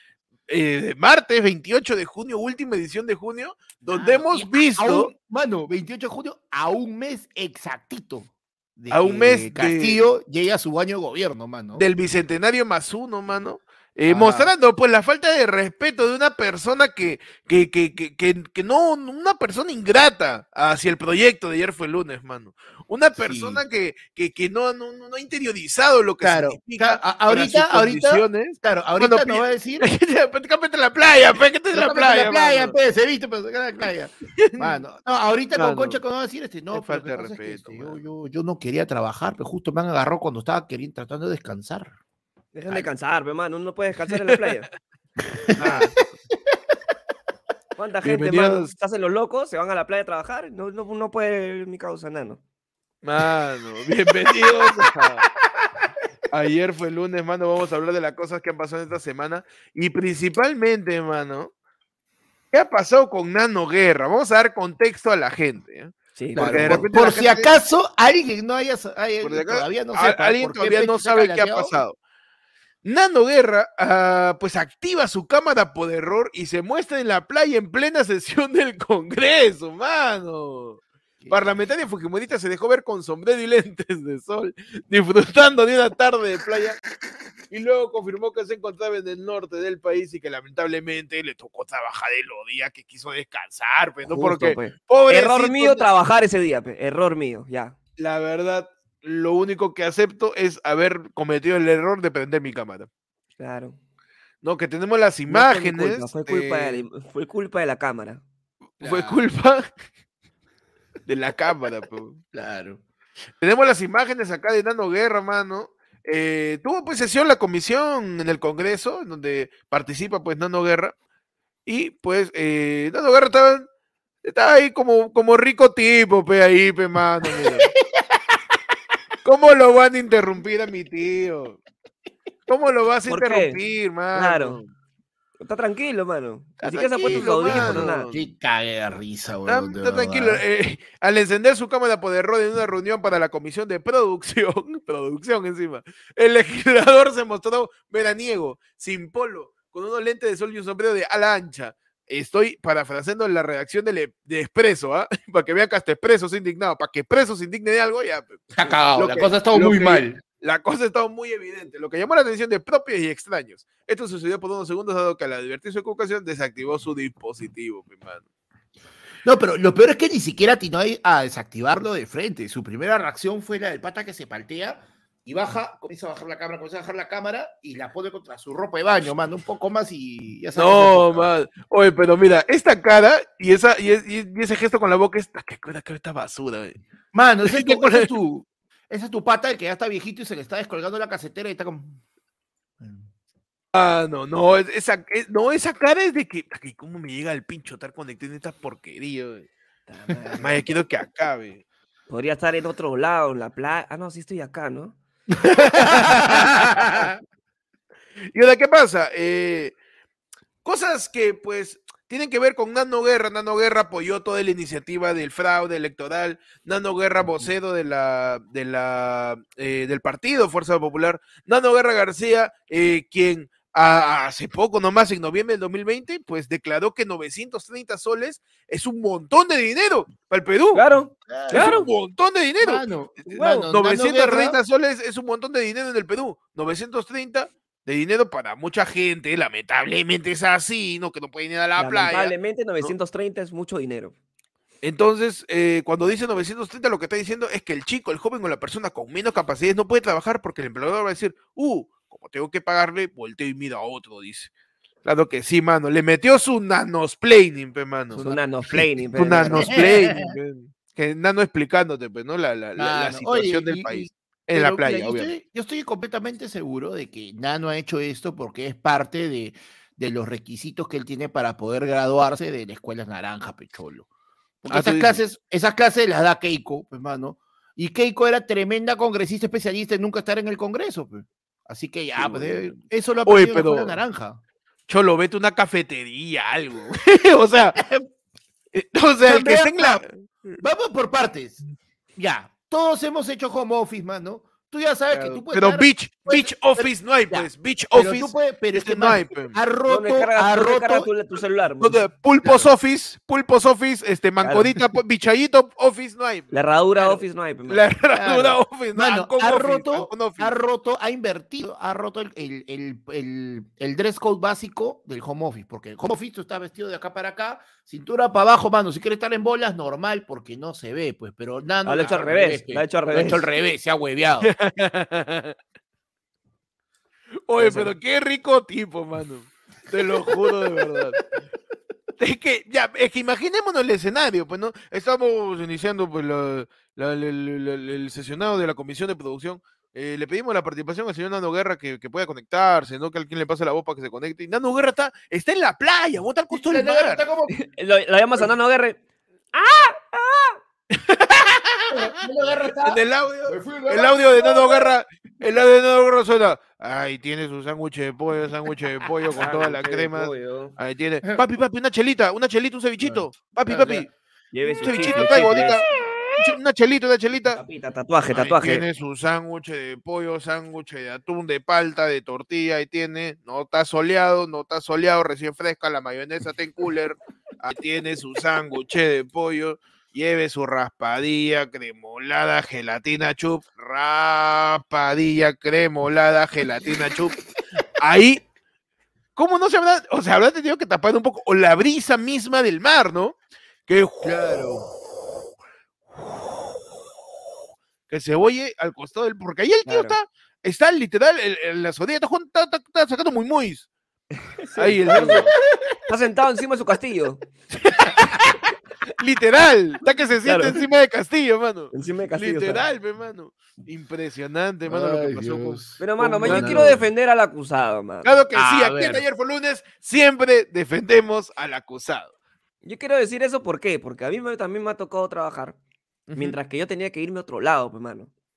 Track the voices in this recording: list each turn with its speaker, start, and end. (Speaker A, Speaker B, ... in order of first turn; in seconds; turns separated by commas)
Speaker A: 0.5-5.1, Speaker B: 3.8-11.8, Speaker A: 8.9-10.0, Speaker A: 11.8-32.8, Speaker B: 14.1-14.5, Speaker B: 23.1-23.6, Speaker B: 26.2-29.9, Speaker B: 31.7-41.9, Speaker A: 34.4-34.8, Speaker A: 35.5-36.0, Speaker A: 36.7-38.0, Speaker C: 42.5-44.7, Speaker A: 44.1-44.5, Speaker B: 45.2-45.9, Speaker A: 45.5-46.0, Speaker C: 47.8-52.4, Speaker A: 48.0-48.7, Speaker A: 53.0-55.3, Speaker B: 54.3-55.0, Speaker B: 55.6-55.9, Speaker A: 56.3-61.5, Speaker A: 62.5-67.5, Speaker C: 66.2-66.8, Speaker B: 66.3-71.8, Speaker A: 69.2-72.0, Speaker A: 72.8-86.8, Speaker A: 87.5-95.9, Speaker C: 94.0-97.7, Speaker A: 98.0-102.9, Speaker C: 103.4-103.8, Speaker A: 104.4-106.9, Speaker C: 105.3-108.2, Speaker A: 108.8-109.7, Speaker B: 108.8-109.2, Speaker A: 111.0-112.2, Speaker B: 112.3-112.8, Speaker A: 113.4-120.9, Speaker A: 121.7-123.7, Speaker A: 124.2-127.7, Speaker B: 127.2-128.4, Speaker A: 129.2-131.6, Speaker A: 132.5-134.7, Speaker C: 133.1-133.6, Speaker C: 134.1-134.6, Speaker C: 135.4-138.1, Speaker B: 136.6-140.4, Speaker A: 137.0-138.2, Speaker A: 139.4-168.2, Speaker B: 158.5-160.2, Speaker B: 169.2-181.3, Speaker A: 180.5-186.8, Speaker B: 187.1-192.0, Speaker A: 187.4-188.1, Speaker B: 192.8-193.1, Speaker A: 193.7-199.5, Speaker C: 199.9-200.6, Speaker A: 200.4-201.6, Speaker C: 202.1-205.0, Speaker A: 205.4-207.1, Speaker B: 205.6-207.2, Speaker A: 208.3-209.8, Speaker A: 210.6-230.8, Speaker C: 230.7-231.8, Speaker B: 231.3-231.8, Speaker A: 231.5-242.9, Speaker B: 232.6-234.6, Speaker C: 241.8-244.1, Speaker A: 244.8-254.5, Speaker A: 255.0-258.3, Speaker C: 258.1-259.8, Speaker B: 258.2-258.9, Speaker A: 259.1-265.3, Speaker B: 259.4-260.3, Speaker B: 262.8-274.1, Speaker B: 274.6-284.4, Speaker A: 274.7-275.2, Speaker A: 282.1-284.0, Speaker A: 284.9-287.8, Speaker B: 287.8-288.1, Speaker A: 288.7-290.6, Speaker B: 289.2-290.0, Speaker B: 290.6-291.6, Speaker B: 292.1-301.1, Speaker A: 295.1-299.6, Speaker C: 299.9-302.0, Speaker A: 301.8-306.5, Speaker B: 302.4-302.7, Speaker C: 304.4-304.7, Speaker C: 306.5-307.9, Speaker A: 307.0-310.6, Speaker B: 308.1-324.5, Speaker C: 321.8-323.4, Speaker A: 324.4-325.6, Speaker A: 327.5-331.2, Speaker C: 327.6-327.9, Speaker A: 332.2-347.2, Speaker B: 346.5-347.5, Speaker C: 347.5-349.0, Speaker C: 349.5-350.6, Speaker A: 350.9-352.1, Speaker B: 351.9-354.9, Speaker A: 352.8-364.1, Speaker C: 359.3-360.8, Speaker B: 363.0-364.1, Speaker C: 364.5-365.9, Speaker A: 364.8-367.6, Speaker C: 367.5-368.8, Speaker A: 368.3-387.4, Speaker A: 388.0-388.4, Speaker A: 389.4-394.6, Speaker B: 394.2-394.9, Speaker A: 398.1-403.9, Speaker C: 399.9-400.1, Speaker C: 404.4-405.5, Speaker A: 404.7-405.5, Speaker B: 405.1-405.8, Speaker C: 406.1-407.4, Speaker A: 407.7-408.4, Speaker A: 409.2-417.0, Speaker C: 410.4-410.8, Speaker C: 411.9-412.8, Speaker B: 414.9-417.1, Speaker C: 416.0-418.4, Speaker A: 418.2-422.3, Speaker B: 418.5-419.2, Speaker C: 422.8-425.8, Speaker A: 426.3-426.6, Speaker C: 426.4-428.3